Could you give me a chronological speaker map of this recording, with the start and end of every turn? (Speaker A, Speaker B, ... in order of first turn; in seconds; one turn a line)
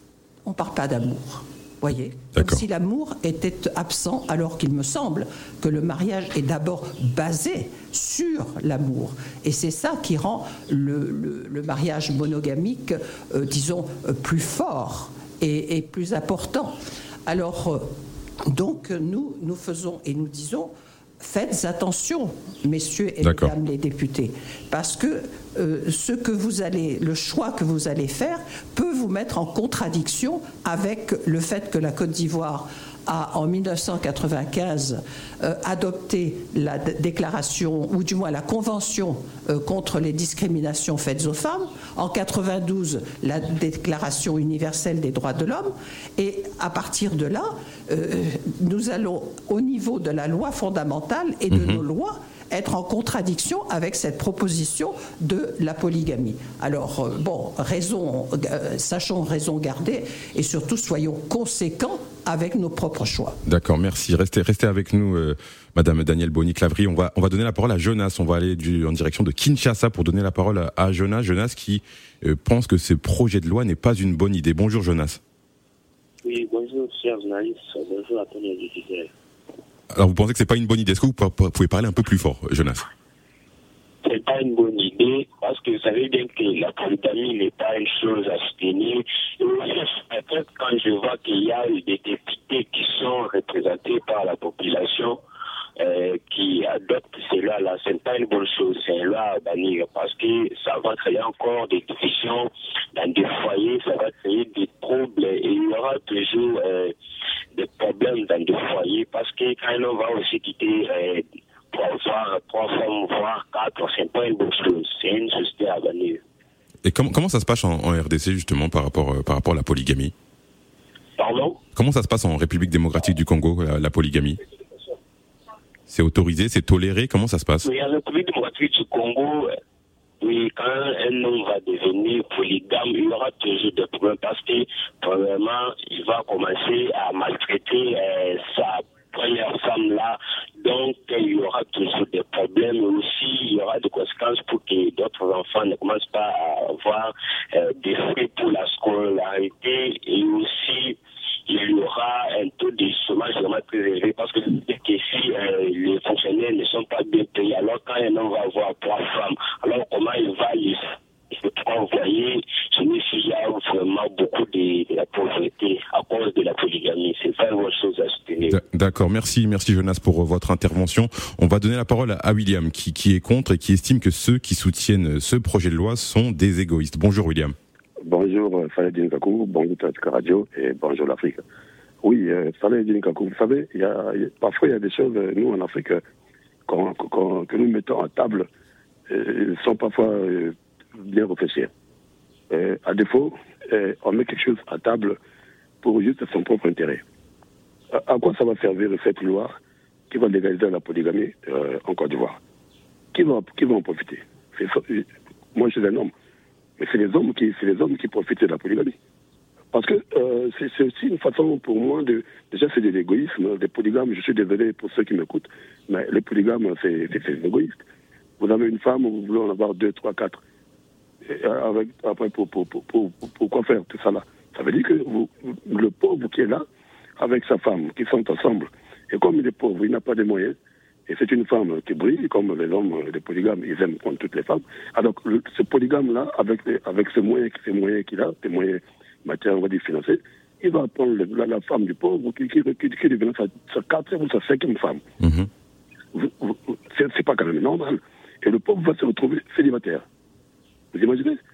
Speaker A: 0.4-17.9
Speaker B: 2.3-2.6
Speaker A: 18.5-63.4
Speaker B: 23.2-23.5
Speaker B: 51.5-51.8
Speaker B: 63.4-75.2
Speaker C: 76.2-79.1
Speaker B: 79.9-82.9
Speaker C: 84.0-95.2
Speaker C: 95.8-106.9
Speaker C: 107.5-116.2
Speaker B: 116.8-120.1
Speaker C: 121.2-121.6
Speaker B: 121.8-124.4
Speaker B: 125.9-127.7
Speaker C: 127.6-129.5
Speaker C: 130.2-168.6
Speaker B: 168.4-177.6
Speaker D: 178.1-181.4
Speaker D: 182.0-186.0
Speaker D: 186.7-188.5
Speaker D: 189.1-191.7
Speaker D: 192.5-195.2
Speaker D: 195.8-197.0
Speaker D: 197.9-199.6
Speaker D: 200.1-202.4
Speaker D: 203.1-206.1
Speaker D: 206.8-208.9
Speaker D: 209.7-217.8
Speaker D: 218.4-220.4
Speaker D: 221.2-226.6
Speaker D: 227.2-230.6
Speaker D: 231.1-245.0
Speaker B: 245.2-245.5
Speaker D: 246.1-250.0
Speaker D: 250.9-251.4